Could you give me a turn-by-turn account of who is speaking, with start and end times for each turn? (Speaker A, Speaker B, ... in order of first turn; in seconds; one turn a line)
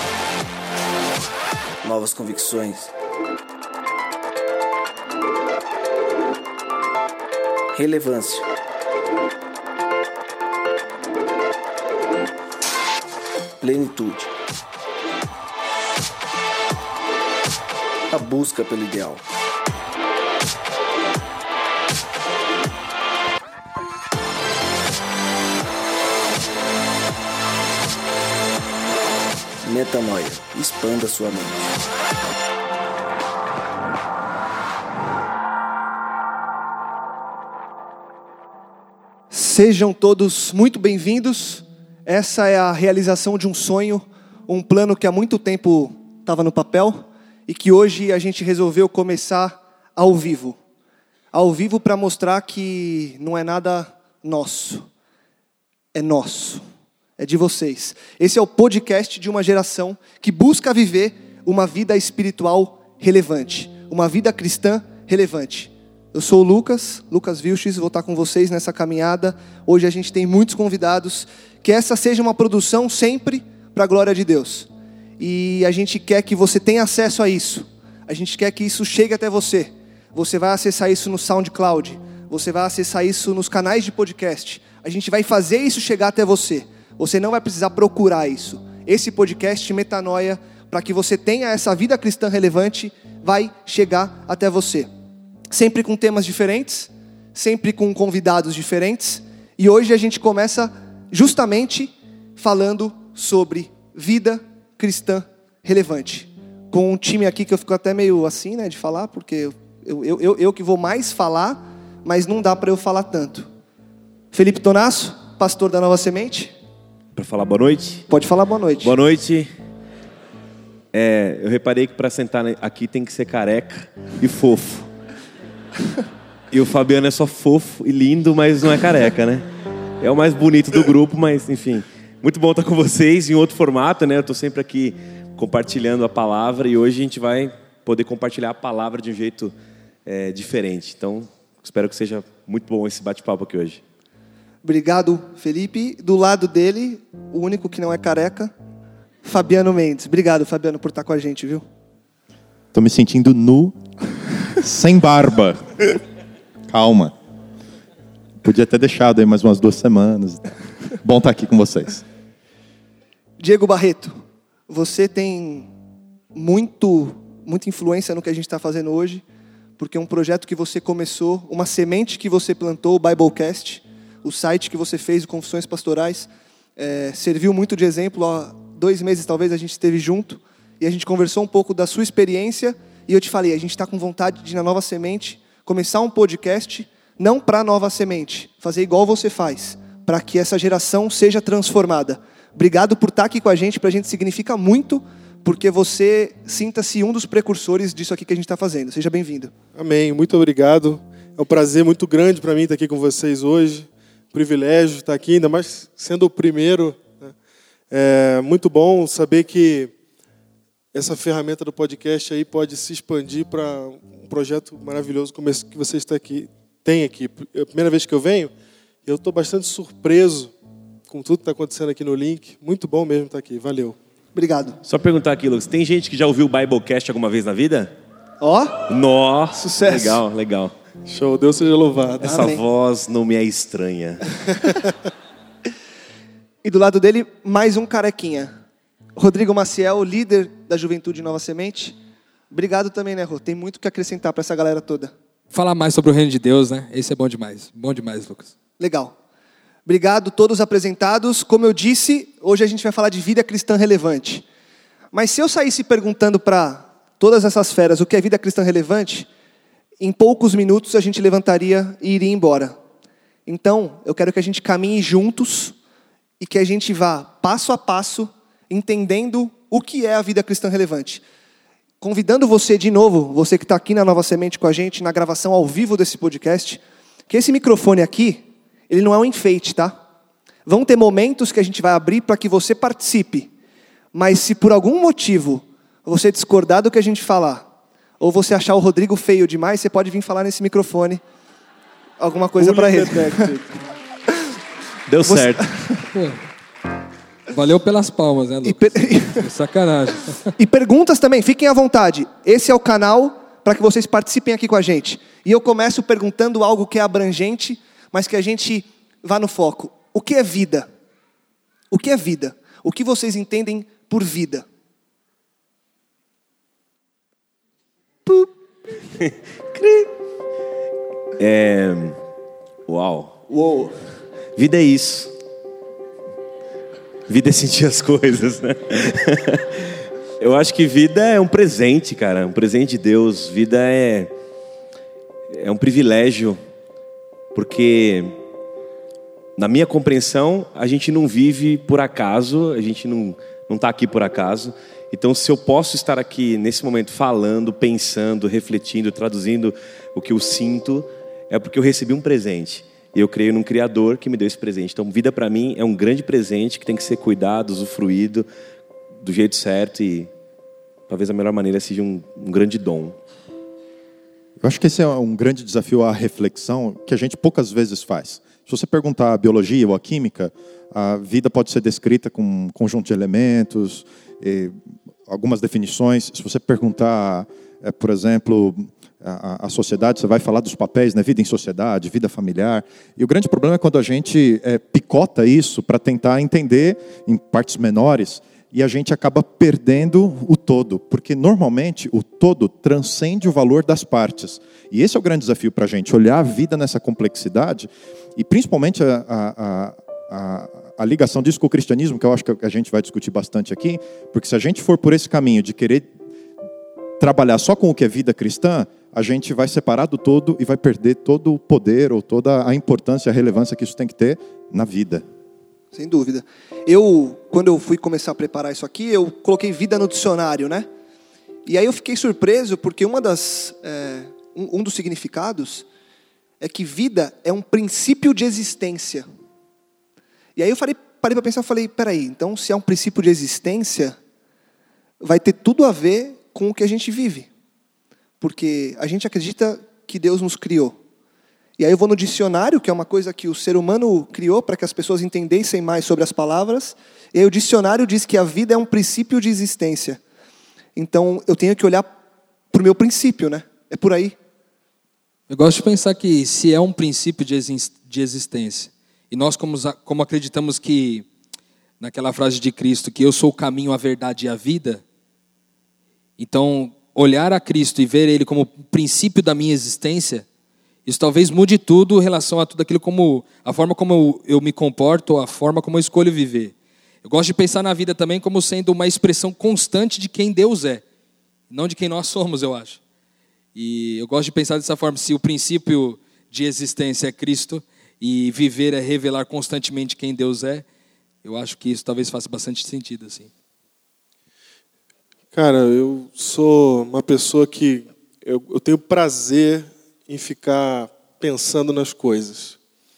Speaker A: 1.8-2.9
Speaker A: 7.7-8.5
Speaker A: 13.6-14.3
Speaker A: 18.1-19.2
Speaker A: 29.6-31.7
Speaker B: 39.3-50.6
Speaker B: 51.3-54.9
Speaker B: 55.9-56.6
Speaker B: 57.2-94.9
Speaker B: 95.5-113.5
Speaker B: 114.3-116.5
Speaker C: 117.1-118.1
Speaker B: 118.1-118.9
Speaker C: 118.8-119.5
Speaker C: 120.9-124.9
Speaker C: 126.5-129.4
Speaker C: 130.0-139.5
Speaker C: 140.1-143.8
Speaker B: 144.6-148.5
Speaker B: 149.2-151.6
Speaker D: 152.7-153.8
Speaker D: 154.5-156.0
Speaker D: 156.7-157.1
Speaker D: 158.4-162.0
Speaker B: 163.4-164.2
Speaker B: 164.7-165.7
Speaker B: 166.3-169.2
Speaker B: 169.8-199.5
Speaker E: 199.7-207.3
Speaker E: 207.9-209.9
Speaker E: 210.9-218.5
Speaker E: 219.0-220.5
Speaker E: 221.1-224.0
Speaker B: 224.3-224.8
Speaker C: 224.8-227.9
Speaker B: 228.4-228.8
Speaker C: 228.9-230.7
Speaker B: 229.5-230.2
Speaker E: 231.1-232.5
Speaker C: 232.2-234.3
Speaker B: 232.2-232.6
Speaker B: 236.6-238.5
Speaker B: 239.2-241.9
Speaker B: 242.5-245.1
Speaker F: 245.5-248.5
Speaker B: 248.8-249.1
Speaker B: 249.8-254.4
Speaker B: 255.1-259.3
Speaker B: 260.0-262.7
Speaker B: 263.4-265.8
Speaker B: 266.4-271.2
Speaker B: 272.0-280.0
Speaker B: 280.7-283.5
Speaker B: 284.1-287.6
Speaker B: 288.2-291.2
Speaker B: 292.2-293.5
Speaker E: 292.6-293.7
Speaker C: 295.1-295.7
Speaker B: 295.2-296.1
Speaker F: 296.1-296.4
Speaker F: 297.5-300.5
Speaker B: 298.6-299.5
Speaker B: 300.6-310.9
Speaker B: 311.9-314.6
Speaker B: 318.2-318.5
Speaker C: 319.2-320.1
Speaker C: 321.4-322.2
Speaker C: 322.9-323.4
Speaker B: 323.5-323.9
Speaker C: 324.6-325.3
Speaker C: 327.3-329.9
Speaker C: 330.4-334.3
Speaker C: 335.5-336.6
Speaker C: 337.5-338.4
Speaker C: 339.6-358.4
Speaker C: 359.2-360.3
Speaker C: 361.1-363.2
Speaker D: 364.6-374.7
Speaker D: 375.3-406.1
Speaker D: 407.2-415.2
Speaker B: 415.9-420.9
Speaker B: 421.6-425.8
Speaker B: 426.6-429.2
Speaker B: 430.6-434.2
Speaker B: 435.2-437.5
Speaker B: 438.4-441.0
Speaker B: 441.8-450.2
Speaker B: 450.9-452.1
Speaker B: 452.7-454.4
Speaker F: 455.5-461.2
Speaker F: 462.0-465.0
Speaker F: 466.4-470.4
Speaker F: 471.1-481.0
Speaker F: 481.7-483.0
Speaker F: 483.7-490.8
Speaker F: 491.4-493.5
Speaker E: 495.5-502.8